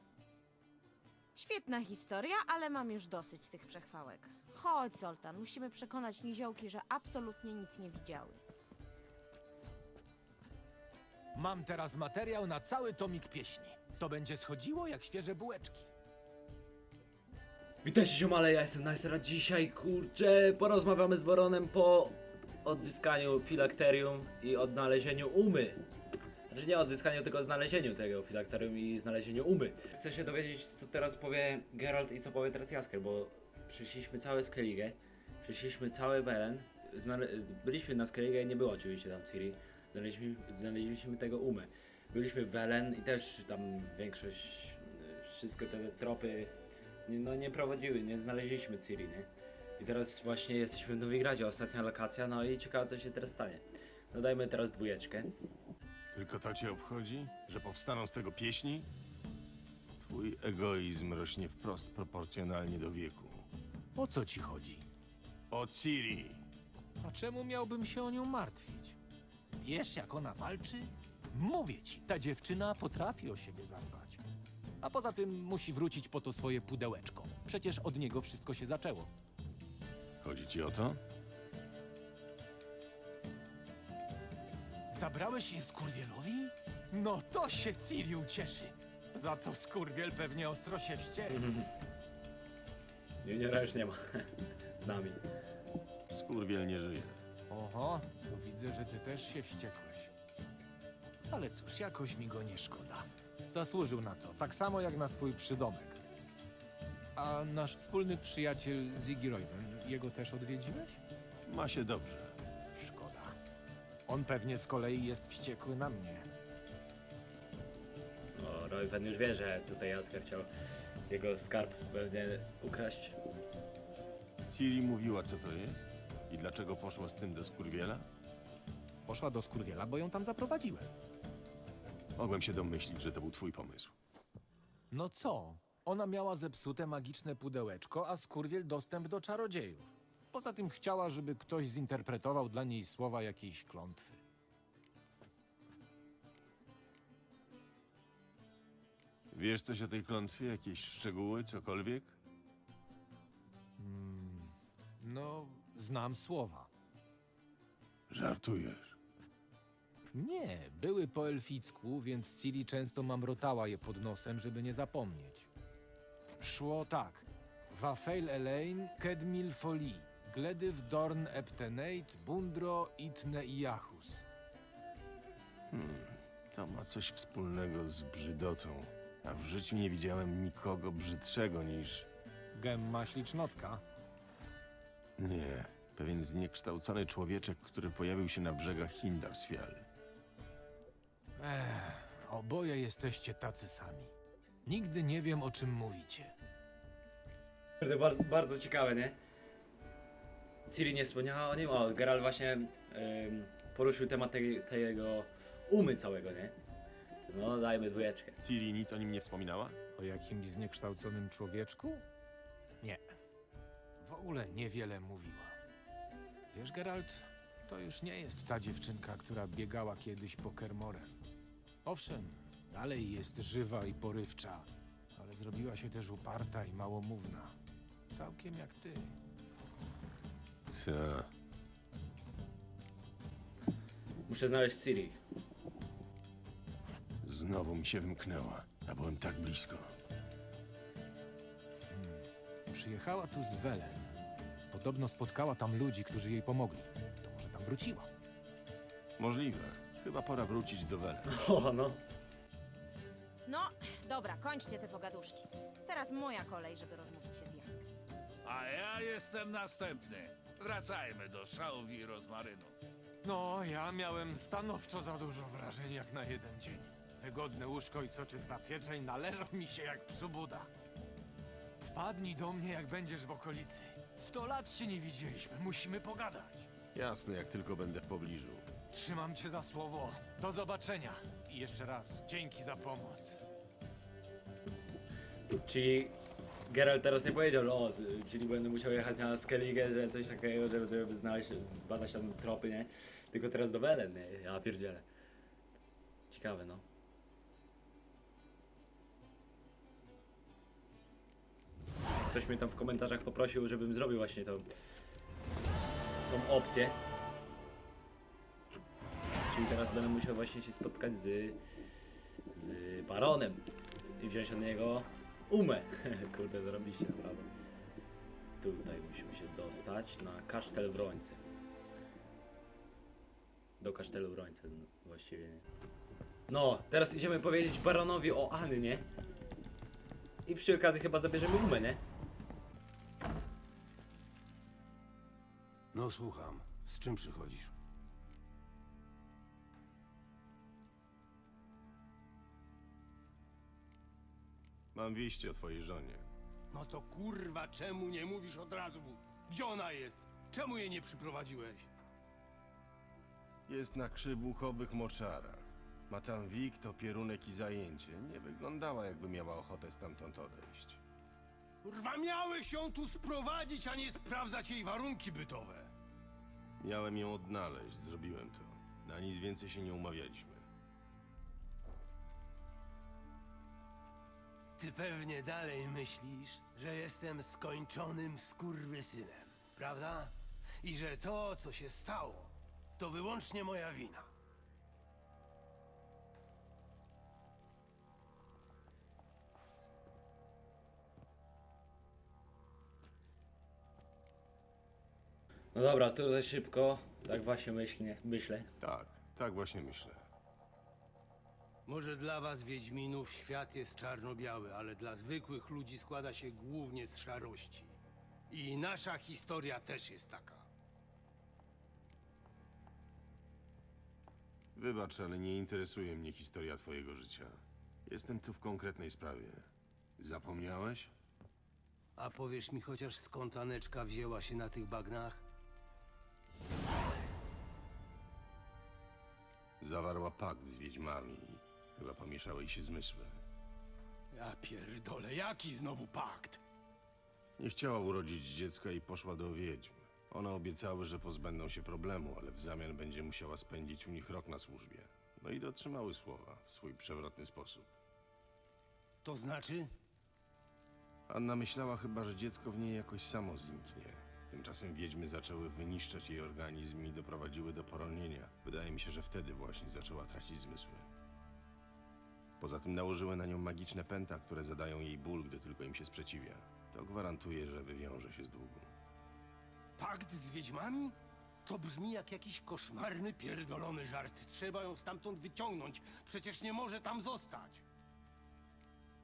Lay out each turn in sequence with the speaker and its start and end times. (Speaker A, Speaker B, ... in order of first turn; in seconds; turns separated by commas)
Speaker A: 1.3-8.4, Speaker B: 11.3-15.9, Speaker C: 17.8-25.8, Speaker C: 26.5-46.5, Speaker C: 47.1-55.3, Speaker D: 56.1-58.9, Speaker D: 60.0-63.5, Speaker B: 63.9-64.8, Speaker D: 65.5-66.5, Speaker B: 67.0-69.0, Speaker B: 69.5-74.2, Speaker B: 74.8-79.1, Speaker D: 80.2-81.0, Speaker B: 84.9-91.4, Speaker C: 91.3-91.6, Speaker C: 93.2-95.2, Speaker D: 96.1-97.2, Speaker B: 97.5-100.1, Speaker B: 101.3-106.0, Speaker B: 107.2-111.0, Speaker D: 111.5-112.3, Speaker B: 112.7-113.3, Speaker B: 114.1-116.3, Speaker C: 118.3-120.5, Speaker C: 121.1-123.2, Speaker D: 124.5-128.1, Speaker B: 129.1-130.9, Speaker D: 132.2-133.9, Speaker B: 134.9-144.2, Speaker D: 149.3-152.2, Speaker B: 153.8-156.7, Speaker D: 158.1-159.0, Speaker B: 160.1-165.5, Speaker B: 166.4-174.2, Speaker D: 175.7-182.1, Speaker B: 182.5-183.8, Speaker D: 185.2-189.8, Speaker B: 191.4-194.1, Speaker B: 194.6-196.3, Speaker C: 197.8-199.2, Speaker C: 200.7-206.5, Speaker C: 207.3-208.4, Speaker D: 208.4-209.8, Speaker B: 209.9-212.0, Speaker B: 214.0-215.6, Speaker B: 216.5-221.2, Speaker B: 221.8-227.5, Speaker B: 228.1-229.2, Speaker D: 230.7-231.3, Speaker C: 234.3-235.2, Speaker D: 237.2-239.9, Speaker B: 241.9-244.1, Speaker B: 244.7-248.1, Speaker D: 249.2-251.3, Speaker C: 251.3-252.0, Speaker A: 253.4-257.9, Speaker E: 258.4-262.8, Speaker B: 263.2-270.7, Speaker B: 271.8-276.7, Speaker D: 276.9-278.7, Speaker B: 278.9-283.4, Speaker C: 285.5-286.1, Speaker C: 286.7-295.1, Speaker C: 296.3-296.8, Speaker C: 302.2-304.7, Speaker C: 306.3-307.0, Speaker C: 309.5-311.6, Speaker C: 312.5-313.6, Speaker C: 314.2-317.5, Speaker C: 318.6-321.4, Speaker C: 323.8-325.6, Speaker C: 326.5-329.1, Speaker C: 330.4-332.0, Speaker F: 335.9-337.7, Speaker D: 344.9-346.3, Speaker F: 346.7-351.9, Speaker D: 353.7-361.0, Speaker F: 361.8-365.9, Speaker D: 366.8-370.7, Speaker F: 374.8-384.3, Speaker C: 395.7-398.7, Speaker D: 398.8-400.2, Speaker F: 401.9-408.0, Speaker F: 408.5-410.7, Speaker D: 414.8-421.1, Speaker F: 422.2-425.4, Speaker D: 429.8-433.4, Speaker F: 434.3-436.6, Speaker D: 437.6-447.9, Speaker F: 449.2-449.9, Speaker D: 451.3-461.1, Speaker D: 462.6-468.9, Speaker F: 470.0-477.8